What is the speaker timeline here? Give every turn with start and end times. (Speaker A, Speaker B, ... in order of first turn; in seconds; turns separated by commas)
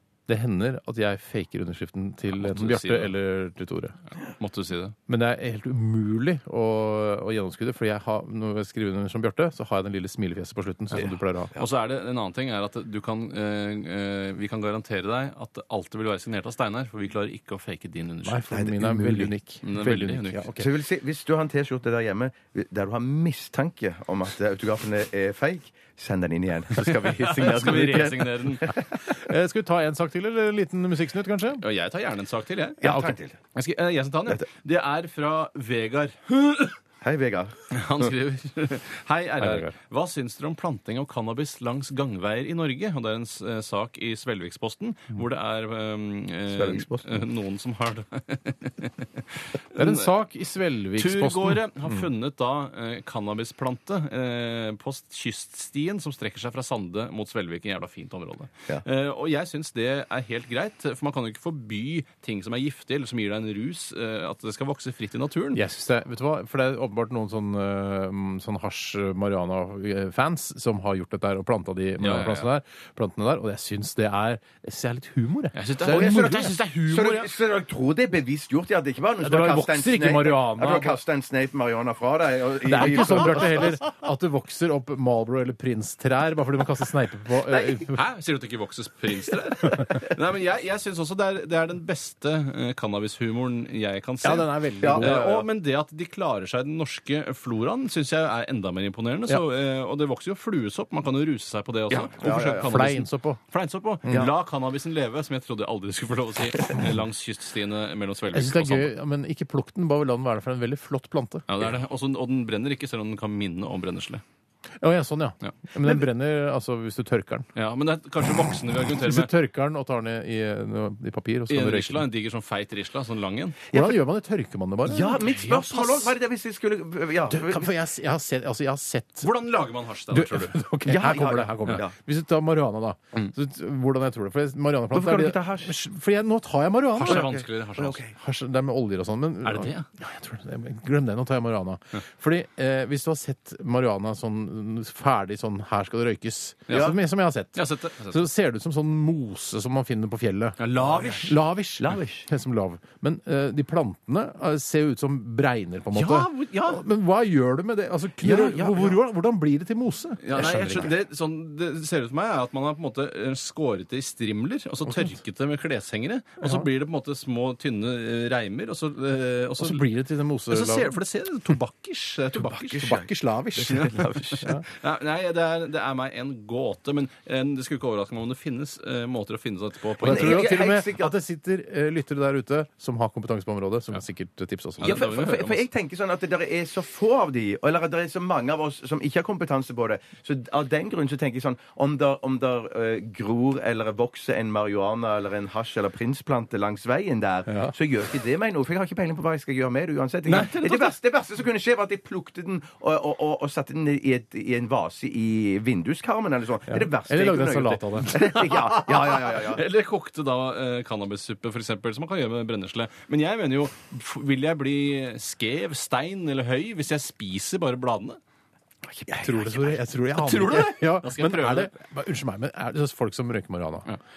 Speaker A: 0.3-4.0, Speaker B: 2.3-3.1, Speaker B: 4.2-4.9, Speaker A: 5.1-11.5, Speaker C: 10.9-11.7, Speaker B: 11.6-18.4, Speaker A: 18.2-20.7, Speaker C: 18.5-19.3, Speaker B: 19.6-20.5, Speaker C: 20.6-28.9, Speaker B: 27.1-28.7, Speaker A: 29.1-31.6, Speaker B: 31.6-32.9, Speaker C: 32.8-33.4, Speaker A: 32.8-33.1, Speaker B: 33.5-36.8, Speaker C: 37.0-37.7, Speaker B: 37.7-50.1, Speaker A: 39.4-39.7, Speaker C: 46.5-47.2, Speaker A: 49.7-52.0, Speaker B: 51.0-65.6, Speaker A: 65.5-76.6, Speaker B: 72.0-72.5, Speaker B: 75.5-77.3, Speaker C: 75.8-83.8, Speaker A: 79.2-81.0, Speaker A: 82.7-88.0, Speaker B: 87.7-108.9, Speaker A: 94.2-95.5, Speaker C: 94.8-95.2, Speaker C: 101.9-102.7, Speaker A: 102.2-103.4, Speaker A: 108.3-111.5, Speaker B: 111.5-114.2, Speaker A: 114.8-117.5, Speaker B: 117.5-119.3, Speaker A: 119.0-122.0, Speaker B: 121.5-123.6, Speaker C: 123.7-124.0, Speaker A: 123.7-126.1, Speaker C: 124.8-127.7, Speaker A: 127.3-129.3, Speaker B: 129.2-130.6, Speaker A: 130.1-137.3, Speaker C: 130.8-131.9, Speaker C: 134.9-135.7, Speaker B: 136.9-138.0, Speaker C: 137.1-138.1, Speaker A: 138.2-150.6, Speaker B: 139.4-139.9, Speaker C: 146.7-146.9, Speaker B: 147.5-148.2, Speaker B: 150.6-151.4, Speaker A: 151.2-160.9, Speaker C: 151.8-152.3, Speaker B: 155.9-156.8, Speaker C: 158.2-159.0, Speaker B: 160.2-169.8, Speaker A: 164.9-165.1, Speaker A: 166.4-166.7, Speaker A: 169.6-170.9, Speaker B: 170.5-172.8, Speaker C: 172.5-174.6, Speaker A: 172.7-174.6, Speaker B: 173.6-180.4, Speaker C: 180.0-181.1, Speaker A: 180.0-185.0, Speaker B: 184.8-185.6, Speaker C: 184.8-209.6, Speaker A: 197.5-197.7, Speaker A: 200.3-200.9, Speaker A: 206.7-208.4, Speaker B: 208.5-218.2, Speaker C: 218.9-219.8, Speaker A: 219.2-223.9, Speaker B: 220.2-221.7